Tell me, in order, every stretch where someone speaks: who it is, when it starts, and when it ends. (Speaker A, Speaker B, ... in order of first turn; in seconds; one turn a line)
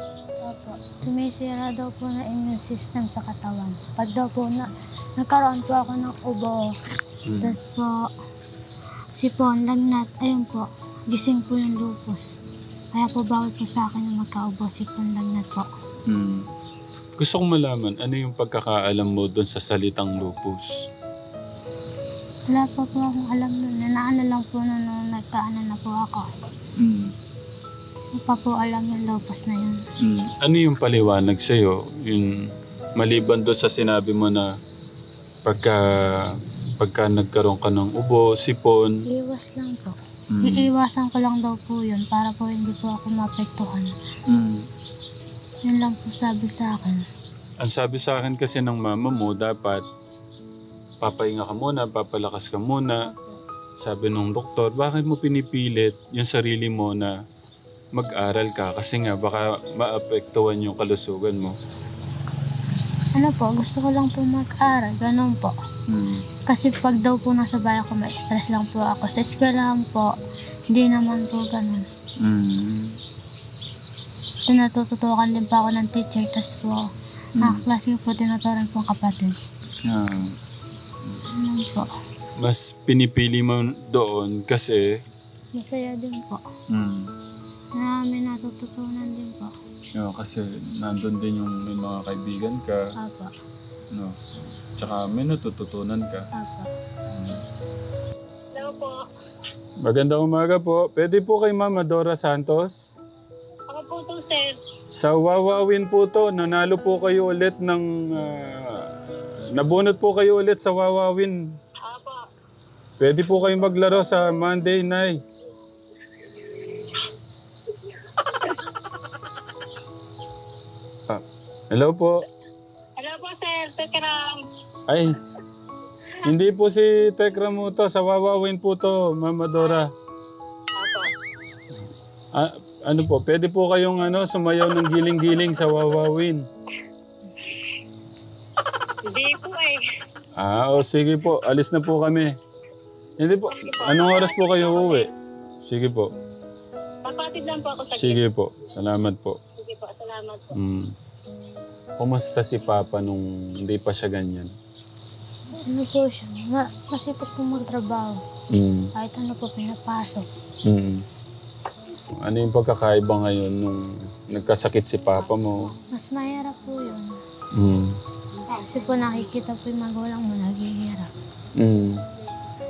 Speaker A: 0.4-6.7
Speaker B: 7.3-7.6
Speaker A: 7.4-8.1
Speaker A: 9.2-12.3
Speaker A: 12.9-15.7
Speaker B: 16.1-16.5
Speaker B: 17.2-20.8
Speaker A: 22.5-26.3
Speaker B: 26.8-27.1
Speaker A: 28.2-29.8
Speaker B: 30.0-34.5
Speaker B: 35.5-39.0
Speaker A: 39.1-43.9
Speaker B: 40.3-40.7
Speaker B: 44.3-44.7
Speaker A: 45.6-47.0
Speaker B: 47.6-49.9
Speaker B: 51.0-53.0
Speaker A: 53.0-53.4
Speaker B: 53.8-57.1
Speaker B: 58.0-61.6
Speaker A: 63.1-65.5
Speaker B: 65.9-66.3
Speaker A: 66.5-70.1
Speaker A: 70.7-71.9
Speaker B: 72.2-73.0
Speaker A: 74.5-76.8
Speaker A: 77.4-79.5
Speaker B: 79.8-80.4
Speaker A: 81.3-81.9
Speaker B: 82.4-85.0
Speaker A: 85.6-86.4
Speaker B: 86.7-87.1
Speaker A: 87.8-89.5
Speaker B: 90.0-92.8
Speaker A: 93.0-93.3
Speaker B: 93.9-94.2
Speaker B: 94.8-96.3
Speaker A: 96.4-96.7
Speaker B: 97.1-97.4
Speaker C: 98.5-99.0
Speaker B: 99.8-102.8
Speaker C: 103.7-104.5
Speaker B: 104.9-108.9
Speaker B: 109.5-111.4
Speaker C: 111.8-112.2
Speaker B: 113.0-115.2
Speaker C: 118.0-118.6
Speaker B: 121.1-122.2
Speaker C: 123.0-124.4
Speaker B: 124.9-125.2
Speaker B: 126.2-129.9
Speaker C: 130.8-131.1
Speaker B: 132.3-136.5
Speaker C: 139.1-139.8
Speaker B: 140.4-142.3
Speaker B: 143.2-145.1
Speaker C: 143.6-145.1
Speaker B: 145.6-146.1
Speaker C: 147.1-148.2
Speaker B: 147.9-149.4
Speaker C: 149.6-150.5
Speaker B: 150.5-150.9
Speaker B: 152.0-154.5
Speaker A: 155.5-158.2
Speaker B: 158.5-158.9
Speaker A: 159.0-160.3
Speaker B: 160.7-161.1
Speaker B: 162.2-165.7
Speaker A: 165.8-167.2
Speaker B: 167.5-168.0
Speaker A: 168.5-171.1
Speaker B: 171.6-172.0